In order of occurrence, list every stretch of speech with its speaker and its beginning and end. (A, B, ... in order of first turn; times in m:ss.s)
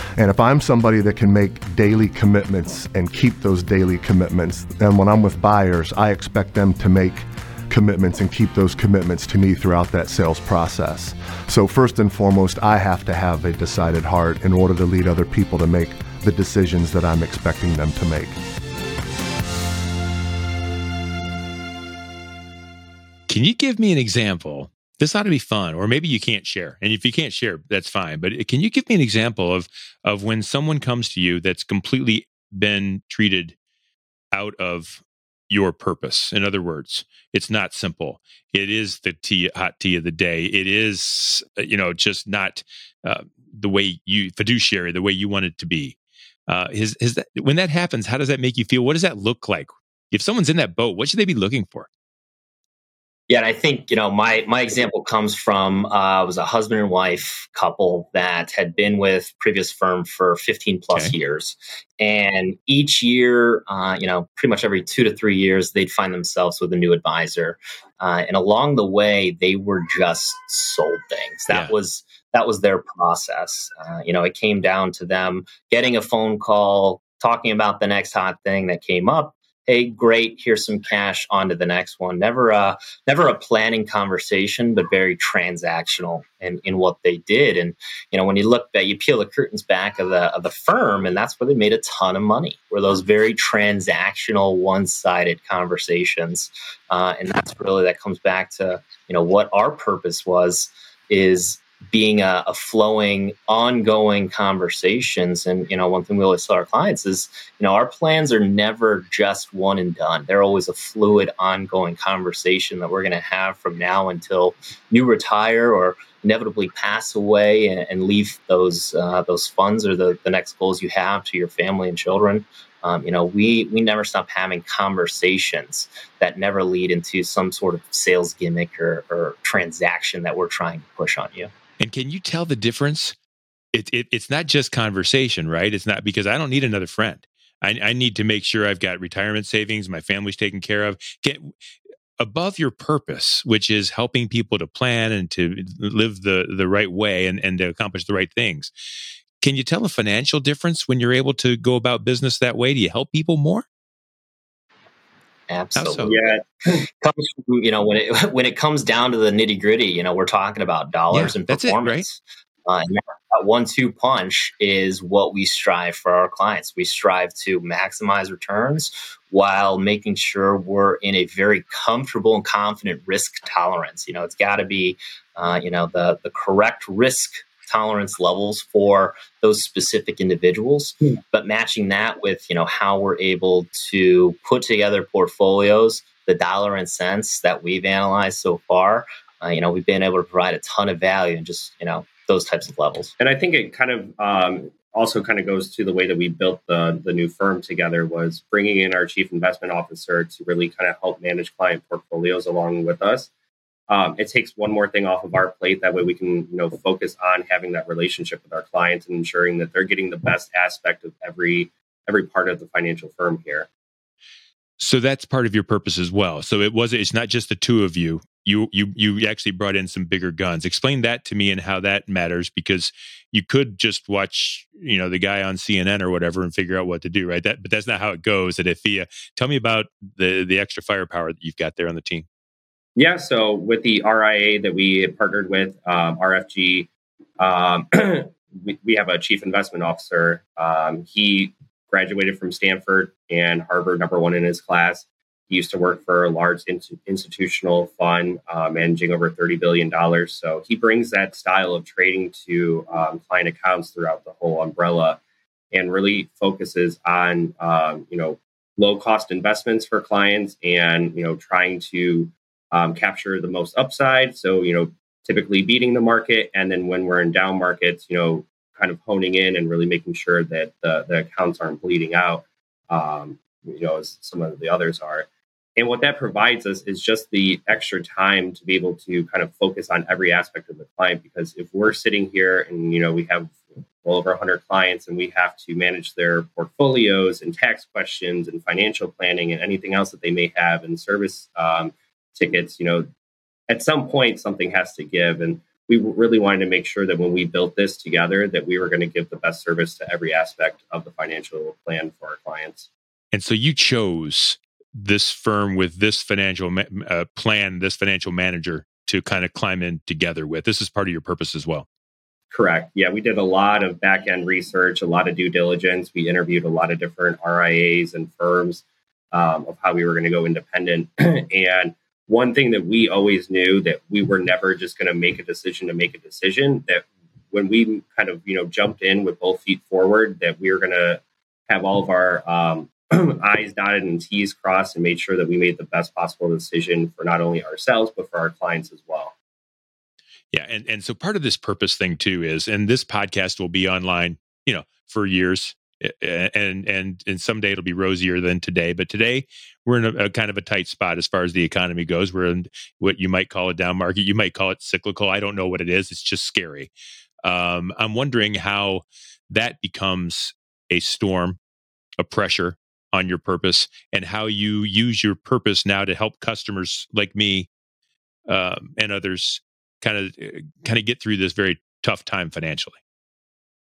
0:00.2-0:18.4 A
0:23.3-0:33.6 B
0:34.3-0:46.0 B
0:46.5-0:51.9 B
0:53.3-2:11.5 C
2:11.8-2:13.2 B
2:13.7-2:21.5 B
2:22.2-2:28.7 B
2:29.4-2:33.6 B
2:35.5-3:13.1 C
2:35.8-2:36.1 B
2:36.1-2:36.4 D
2:41.1-2:42.0 B
3:13.2-3:23.3 D
3:23.9-3:33.7 D
3:34.8-3:52.3 B
3:53.0-4:15.2 D
4:15.7-4:53.1 D
4:53.7-5:02.9 D
5:03.3-5:11.9 B
5:12.5-5:39.3 D
5:40.5-5:56.9 B
5:57.4-6:01.6 B
6:02.2-6:07.7 B
6:08.5-6:13.0 B